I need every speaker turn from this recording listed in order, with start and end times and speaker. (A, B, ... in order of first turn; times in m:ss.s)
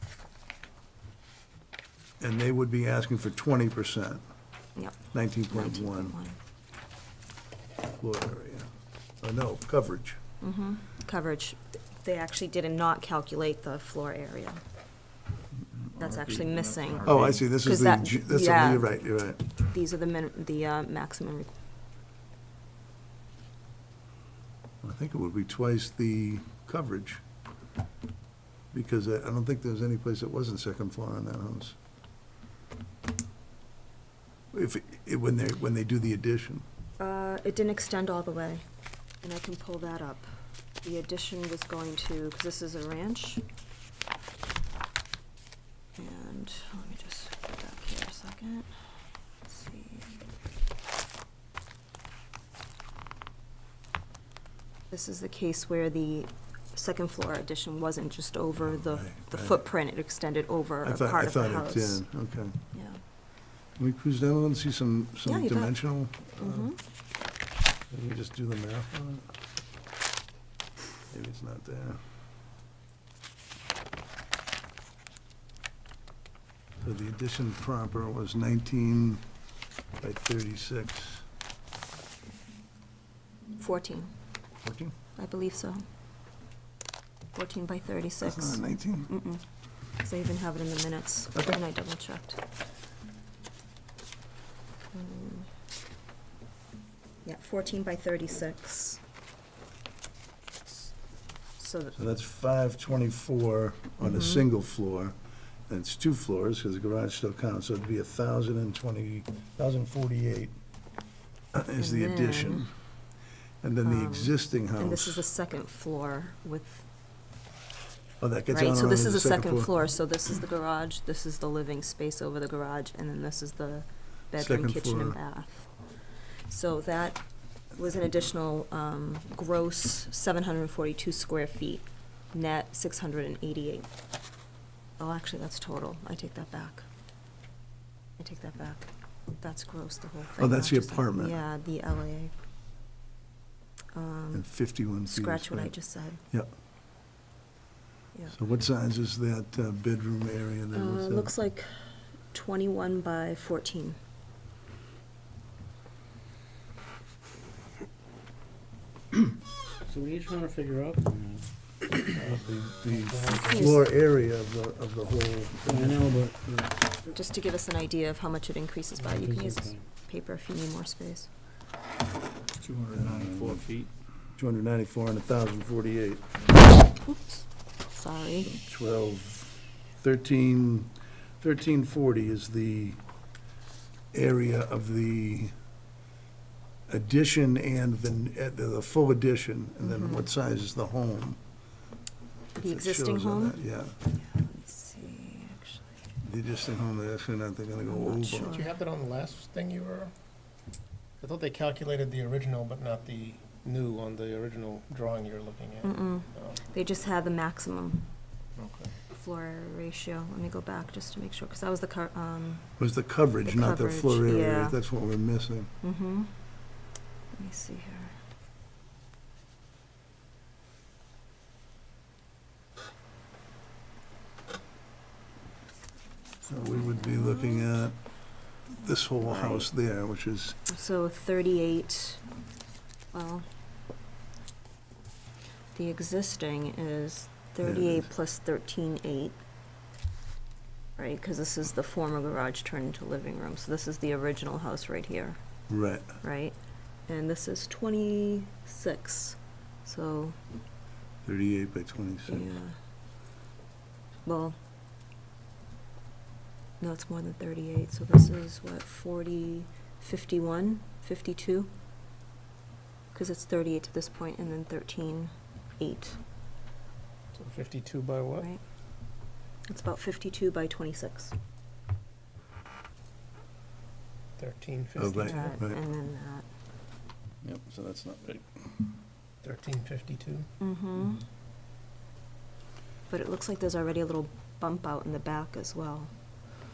0:02.2-0:04.2 A
0:04.8-0:06.4 B
0:05.1-0:06.2 A
0:08.0-0:08.7 A
0:09.2-0:10.2 A
0:10.4-0:14.6 B
0:15.8-0:17.4 C
0:15.9-0:21.5 B
0:17.0-0:19.4 A
0:24.8-0:27.2 A
0:28.7-0:31.8 A
0:34.5-0:36.6 A
0:37.0-0:38.6 B
0:39.2-0:40.3 B
0:40.8-0:43.4 B
0:46.0-0:48.7 B
0:49.4-0:50.2 B
0:54.9-1:02.0 B
0:58.8-0:59.6 A
1:00.8-1:02.6 A
1:02.7-1:03.0 B
1:03.8-1:06.7 A
1:05.2-1:05.8 B
1:06.4-1:06.8 B
1:07.9-1:09.3 A
1:11.1-1:12.0 A
1:16.8-1:19.2 A
1:20.0-1:21.2 A
1:23.6-1:24.1 B
1:24.6-1:24.9 A
1:25.2-1:25.8 B
1:27.3-1:29.4 B
1:28.2-1:29.1 A
1:30.0-1:32.4 B
1:34.9-1:35.5 B
1:37.2-1:39.0 B
1:41.6-1:42.0 B
1:42.0-1:45.2 A
1:44.0-1:44.4 B
1:45.7-1:50.5 A
1:51.5-1:52.7 A
1:51.8-1:52.7 B
1:53.6-1:55.3 A
1:53.8-1:56.9 B
1:58.2-1:59.7 A
1:58.5-2:05.7 B
2:04.3-2:05.2 A
2:06.3-2:13.9 B
2:15.0-2:16.8 B
2:18.2-2:22.3 B
2:20.4-2:21.4 A
2:23.9-2:24.5 B
2:24.3-2:25.8 A
2:25.0-2:26.2 B
2:28.3-2:31.3 A
2:30.7-2:34.0 B
2:39.8-2:42.0 D
2:42.1-2:46.1 A
2:42.9-2:43.8 E
2:43.3-2:43.8 B
2:45.6-2:47.0 D
2:47.1-2:51.3 B
2:49.0-2:49.8 D
2:52.6-2:53.9 C
2:52.9-2:53.6 A
2:54.4-2:56.2 A
2:57.0-2:58.5 B
2:58.4-3:03.0 A
3:04.1-3:05.5 A
3:06.9-3:11.4 A
3:09.8-3:10.3 B
3:12.6-3:13.6 B
3:12.6-3:14.0 A
3:14.1-3:16.0 B
3:16.2-3:18.6 A
3:17.9-3:18.7 B
3:18.4-3:20.1 E
3:21.2-3:26.6 E
3:25.8-3:28.0 B
3:28.6-3:28.9 E
3:29.1-3:32.7 B
3:32.8-3:35.7 A
3:33.4-3:34.8 B
3:35.8-3:36.3 B
3:37.3-3:38.1 B
3:46.5-3:48.0 A
3:46.6-3:47.7 B
3:48.7-3:50.6 A
3:49.2-3:49.7 B
3:50.7-3:52.2 B
3:53.1-3:53.4 B
3:55.7-3:59.4 B
3:57.6-3:58.1 A
4:01.0-4:05.4 B
4:05.7-4:06.2 A
4:06.2-4:10.4 B
4:11.2-4:12.5 A
4:12.3-4:12.8 B
4:14.2-4:14.6 B
4:16.8-4:21.7 B
4:23.1-4:26.2 B
4:27.3-4:28.5 E
4:29.7-4:31.3 B
4:34.4-4:35.4 E
4:35.0-4:35.8 A
4:35.2-4:36.4 B
4:37.4-4:38.7 A
4:39.4-4:40.5 E
4:40.6-4:41.2 B
4:43.1-4:46.1 B